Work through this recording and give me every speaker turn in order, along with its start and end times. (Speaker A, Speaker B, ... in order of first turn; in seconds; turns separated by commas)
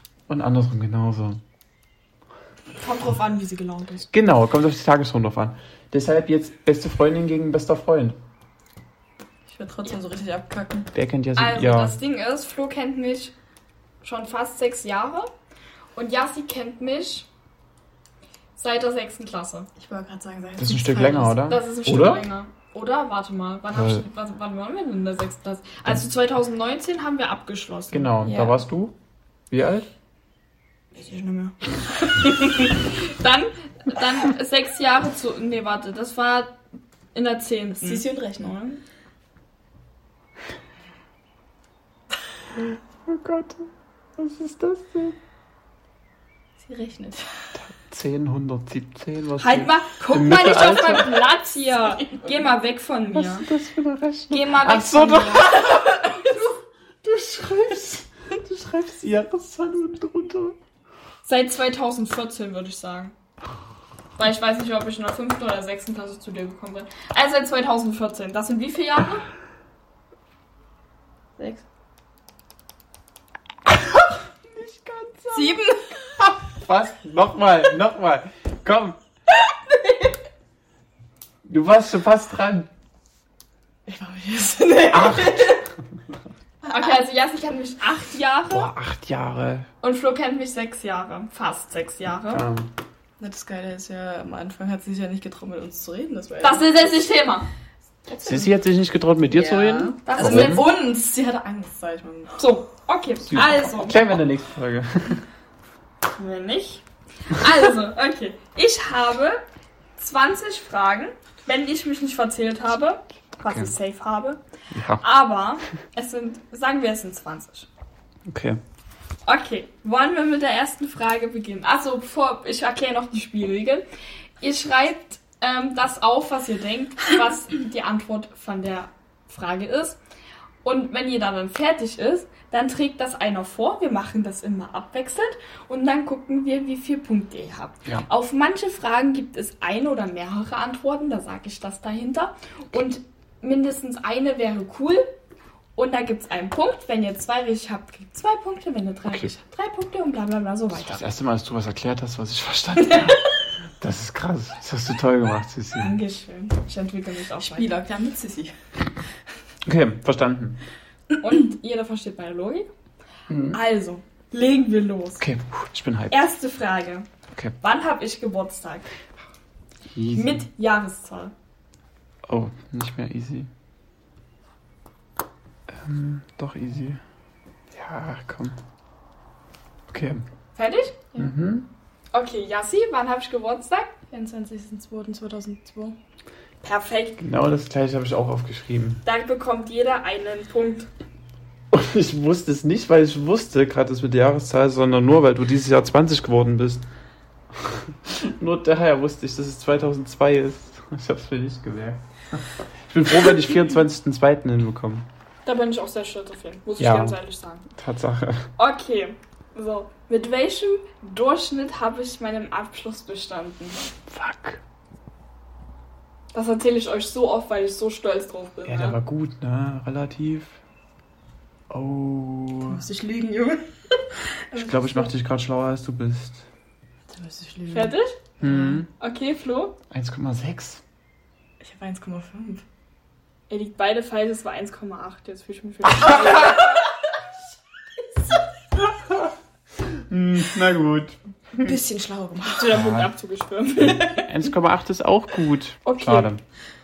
Speaker A: 0.3-1.4, Speaker B: 2.8-4.1, Speaker A: 4.1-8.2, Speaker C: 9.5-10.9, Speaker A: 10.9-12.0, Speaker B: 11.3-13.3, Speaker B: 14.0-15.3, Speaker B: 15.9-17.3, Speaker B: 18.6-19.7, Speaker C: 19.8-21.4, Speaker A: 20.6-22.3, Speaker B: 21.4-28.2, Speaker A: 23.7-24.0, Speaker A: 27.9-28.9, Speaker C: 28.2-28.6, Speaker A: 29.5-29.9, Speaker B: 30.9-36.6, Speaker B: 37.1-38.1, Speaker C: 37.7-38.8, Speaker A: 42.5-45.2, Speaker C: 46.6-47.3, Speaker A: 47.6-51.2, Speaker B: 49.4-53.5, Speaker A: 53.1-60.6, Speaker B: 54.3-55.6, Speaker B: 61.2-63.1, Speaker B: 64.2-69.3, Speaker A: 73.7-79.0, Speaker C: 75.3-76.0, Speaker C: 79.7-80.1, Speaker A: 81.5-82.7, Speaker C: 83.9-85.6, Speaker A: 84.9-85.6, Speaker B: 86.7-88.7, Speaker A: 88.5-89.7, Speaker B: 89.8-92.4, Speaker A: 92.3-92.7, Speaker C: 93.2-96.9, Speaker B: 96.4-97.5, Speaker C: 98.1-98.5, Speaker A: 98.2-100.6, Speaker C: 99.2-102.4, Speaker B: 100.0-100.7, Speaker B: 102.4-104.0, Speaker A: 103.3-105.2, Speaker B: 106.1-109.4, Speaker B: 110.0-114.4, Speaker A: 113.4-113.7, Speaker A: 114.7-115.0, Speaker B: 115.0-117.7, Speaker A: 118.3-118.6, Speaker B: 119.2-123.8, Speaker B: 124.4-130.0, Speaker B: 130.6-145.1, Speaker B: 145.8-151.0, Speaker A: 150.7-155.9, Speaker C: 152.8-153.3, Speaker B: 155.8-157.7, Speaker C: 157.3-158.5, Speaker A: 159.6-160.6, Speaker B: 161.1-162.7, Speaker A: 163.3-163.6, Speaker B: 163.5-165.2, Speaker A: 165.2-166.2, Speaker B: 166.1-167.1, Speaker B: 167.6-168.9, Speaker A: 169.9-170.4, Speaker B: 170.1-171.3, Speaker A: 172.2-173.5, Speaker A: 175.7-177.0, Speaker A: 177.7-178.6, Speaker A: 179.9-180.2, Speaker B: 180.6-181.0, Speaker A: 181.2-181.7, Speaker B: 182.1-184.0, Speaker C: 184.1-185.9, Speaker B: 186.6-187.2, Speaker A: 187.2-189.0, Speaker B: 189.1-190.9, Speaker A: 191.7-196.8, Speaker A: 197.6-205.1, Speaker B: 205.4-207.7, Speaker A: 206.8-207.2, Speaker A: 207.7-208.5, Speaker B: 208.6-213.8, Speaker A: 214.1-214.6, Speaker B: 216.3-219.0, Speaker A: 218.7-220.6, Speaker A: 221.7-222.8, Speaker C: 222.7-224.0, Speaker C: 224.5-225.1, Speaker A: 224.5-226.4, Speaker C: 227.1-228.8, Speaker B: 227.7-228.2, Speaker A: 228.4-228.9, Speaker B: 228.9-229.8, Speaker A: 229.9-230.8, Speaker C: 231.6-232.6, Speaker B: 233.5-236.8, Speaker A: 239.9-241.8, Speaker C: 241.6-242.8, Speaker B: 242.6-244.2, Speaker A: 242.7-243.1, Speaker A: 243.8-246.4, Speaker C: 243.8-244.2, Speaker B: 245.8-246.3